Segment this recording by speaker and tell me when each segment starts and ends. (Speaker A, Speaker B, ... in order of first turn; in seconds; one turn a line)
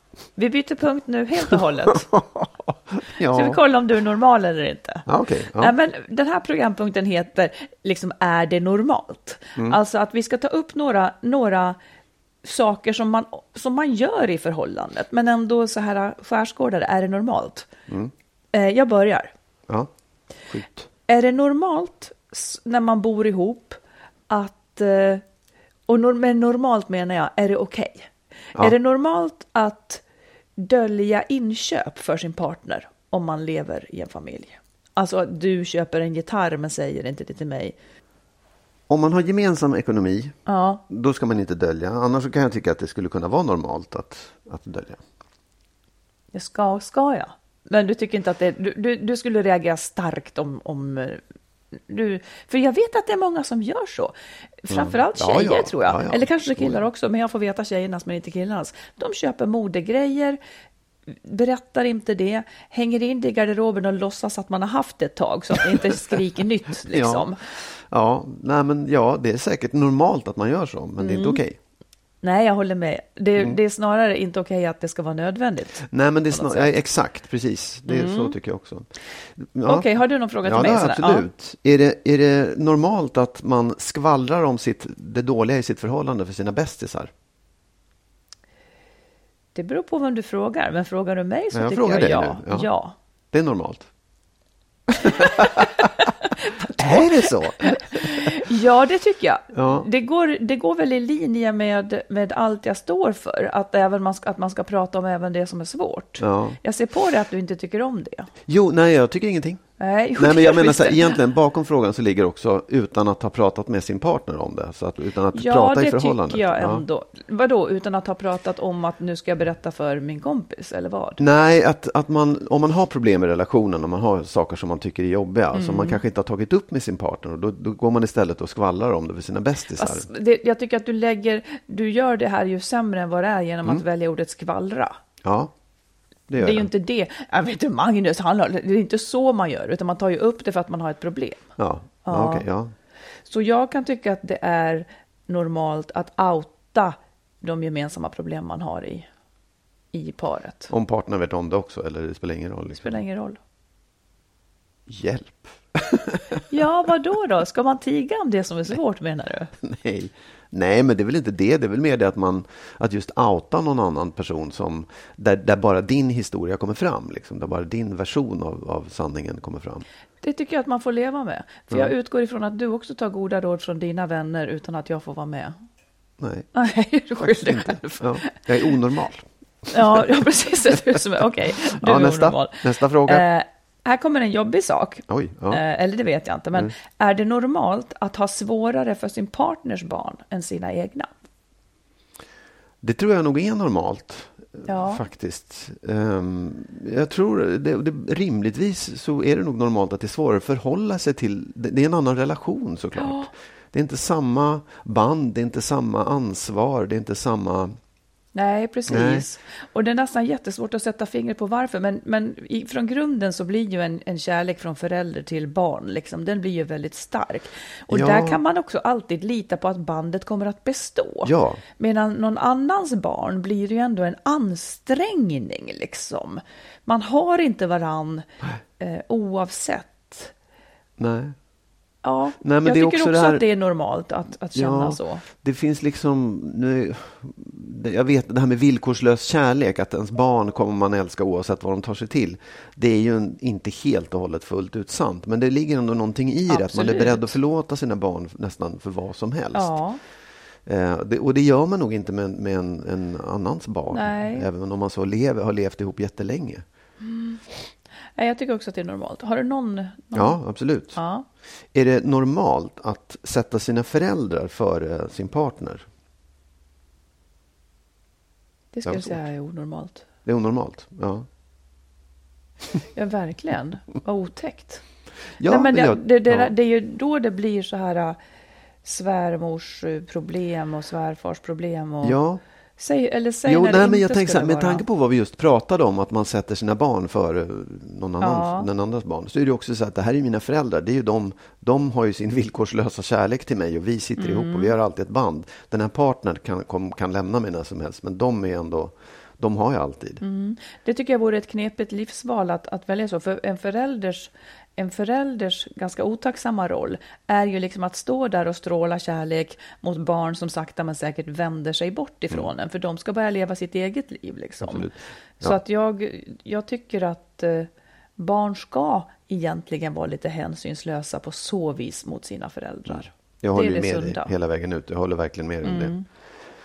Speaker A: 0.4-2.1
Speaker B: 2.1-3.6
Speaker A: 3.3-5.0
Speaker B: 5.1-5.8
Speaker A: 5.6-11.8
Speaker A: 12.4-17.7
Speaker B: 17.9-18.1
Speaker A: 18.5-19.3
Speaker B: 20.5-20.9
Speaker A: 21.1-25.2
Speaker A: 25.9-30.0
Speaker A: 30.6-37.8
Speaker B: 38.9-40.4
Speaker A: 40.5-40.8
Speaker B: 40.9-45.0
Speaker A: 46.3-51.2
Speaker A: 51.9-60.4
Speaker B: 54.7-56.8
Speaker A: 61.1-67.4
Speaker B: 66.9-71.6
Speaker A: 71.0-71.4
Speaker A: 72.2-76.8
Speaker B: 75.8-79.9
Speaker A: 77.9-78.3
Speaker A: 79.7-81.3
Speaker B: 80.4-87.1
Speaker A: 89.5-93.0
Speaker B: 91.5-92.7
Speaker B: 93.3-93.9
Speaker B: 94.9-95.7
Speaker A: 95.2-108.3
Speaker B: 96.8-98.3
Speaker B: 99.5-99.9
Speaker B: 106.2-106.6
Speaker B: 108.5-109.7
Speaker A: 109.8-111.2
Speaker B: 110.2-116.8
Speaker A: 115.3-121.2
Speaker B: 121.2-130.1
Speaker A: 125.5-126.0
Speaker A: 129.8-135.0
Speaker B: 135.2-135.5
Speaker B: 136.3-136.7
Speaker A: 136.4-141.4
Speaker B: 141.6-142.7
Speaker A: 142.1-142.5
Speaker A: 143.3-149.1
Speaker A: 149.9-150.7
Speaker B: 150.7-153.0
Speaker A: 152.7-153.4
Speaker B: 154.9-156.4
Speaker A: 156.5-159.5
Speaker B: 159.6-169.8
Speaker A: 170.2-175.6
Speaker B: 176.2-176.5
Speaker A: 176.6-178.7
Speaker B: 177.2-180.1
Speaker A: 179.7-191.1
Speaker B: 181.7-183.2
Speaker B: 185.1-185.6
Speaker B: 192.8-207.8
Speaker A: 194.7-195.0
Speaker A: 203.0-203.3
Speaker A: 208.3-228.3
Speaker B: 208.9-209.2
Speaker B: 217.9-218.4
Speaker B: 221.2-221.6
Speaker A: 228.8-230.3
Speaker B: 231.0-231.3
Speaker A: 232.0-235.2
Speaker B: 232.4-233.4
Speaker B: 234.5-249.8
Speaker A: 246.5-247.3
Speaker A: 249.5-250.0
Speaker B: 250.7-256.6
Speaker A: 253.9-254.5
Speaker A: 257.0-257.4
Speaker A: 258.2-260.4
Speaker B: 260.1-261.0
Speaker A: 260.9-261.3
Speaker B: 261.7-265.9
Speaker A: 268.7-270.1
Speaker B: 268.9-269.2
Speaker B: 270.2-271.3
Speaker A: 272.9-274.8
Speaker B: 275.4-276.5
Speaker A: 275.5-278.2
Speaker A: 278.8-282.2
Speaker B: 282.0-282.4
Speaker A: 282.8-284.8
Speaker B: 283.5-300.2
Speaker A: 288.2-288.7
Speaker A: 294.2-294.7
Speaker A: 300.2-314.9
Speaker B: 314.6-315.6
Speaker A: 315.4-324.3
Speaker B: 322.9-325.9
Speaker A: 325.6-326.1